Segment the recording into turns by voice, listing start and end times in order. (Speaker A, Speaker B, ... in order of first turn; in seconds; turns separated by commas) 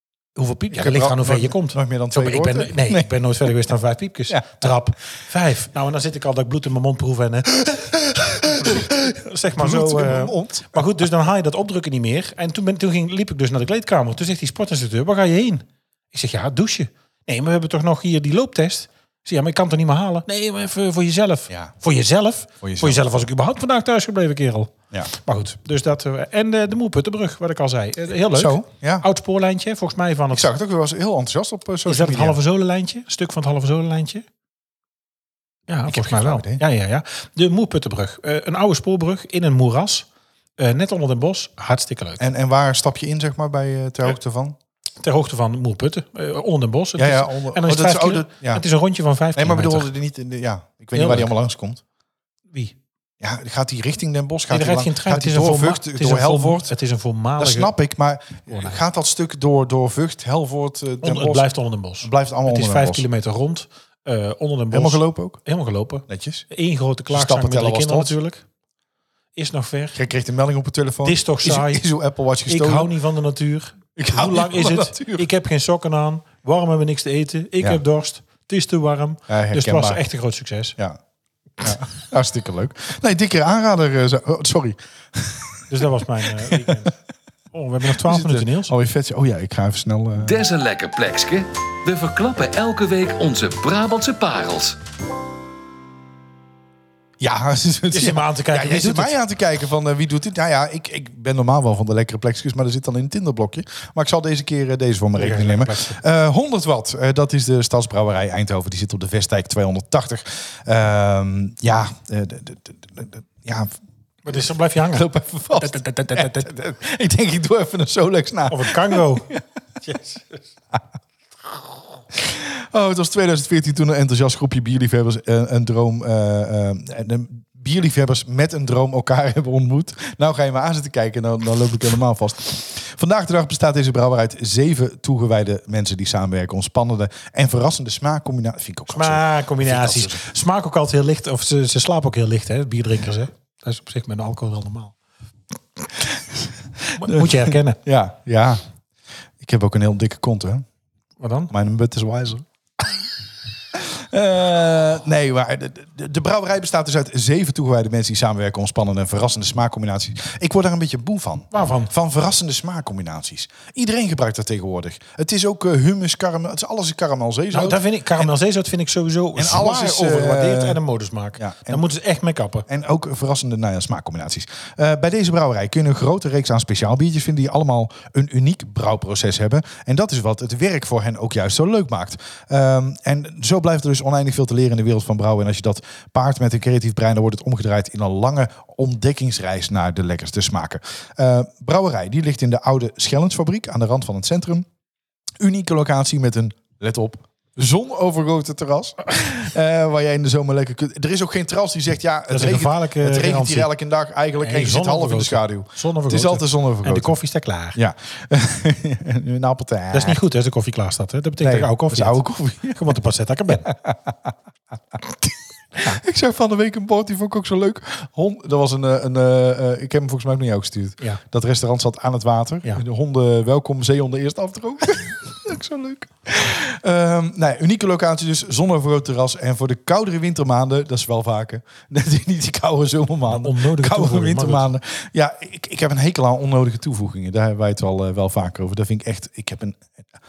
Speaker A: 0.3-30.5, Speaker B: 0.7-3.1, Speaker B: 4.3-4.8, Speaker B: 8.2-9.0, Speaker B: 9.5-11.0, Speaker B: 22.6-23.2, Speaker B: 28.3-29.1, Speaker B: 30.3-32.4, Speaker A: 31.8-34.2, Speaker A: 35.7-40.1, Speaker B: 35.9-36.6, Speaker A: 40.6-42.2, Speaker B: 42.2-44.6, Speaker A: 45.0-49.9, Speaker B: 47.0-48.6, Speaker B: 49.3-51.8, Speaker A: 50.9-51.3, Speaker B: 53.2-56.7, Speaker A: 54.5-57.7, Speaker B: 57.4-61.5, Speaker A: 58.5-58.8, Speaker A: 61.0-68.4, Speaker B: 62.0-63.0, Speaker B: 64.7-65.4, Speaker B: 66.1-66.5, Speaker B: 67.1-68.1, Speaker A: 69.3-70.0, Speaker B: 69.9-72.9, Speaker A: 71.0-71.8, Speaker A: 72.5-80.8, Speaker B: 74.0-75.3, Speaker B: 79.3-80.0, Speaker B: 81.6-85.7, Speaker A: 85.7-86.9, Speaker B: 86.3-86.9, Speaker A: 87.5-88.7, Speaker B: 87.8-90.4, Speaker C: 90.2-94.8, Speaker B: 97.2-113.8, Speaker A: 97.9-99.2, Speaker A: 105.1-106.0, Speaker A: 114.2-116.5, Speaker B: 114.9-119.4, Speaker A: 118.5-119.3, Speaker A: 119.8-120.4, Speaker B: 122.1-140.2, Speaker A: 138.9-144.9, Speaker B: 146.0-148.6, Speaker A: 146.9-147.8, Speaker B: 149.4-150.6, Speaker A: 151.2-151.5, Speaker B: 151.5-152.9, Speaker B: 153.7-168.3, Speaker A: 161.5-161.9, Speaker A: 167.5-172.7, Speaker B: 169.3-170.8, Speaker B: 171.4-171.8, Speaker B: 172.7-194.7, Speaker B: 195.4-207.2, Speaker A: 202.3-203.7, Speaker A: 204.4-207.8, Speaker B: 207.7-210.2, Speaker A: 209.9-213.7, Speaker B: 211.4-212.9, Speaker B: 213.6-214.3, Speaker B: 214.9-239.9, Speaker A: 233.3-234.7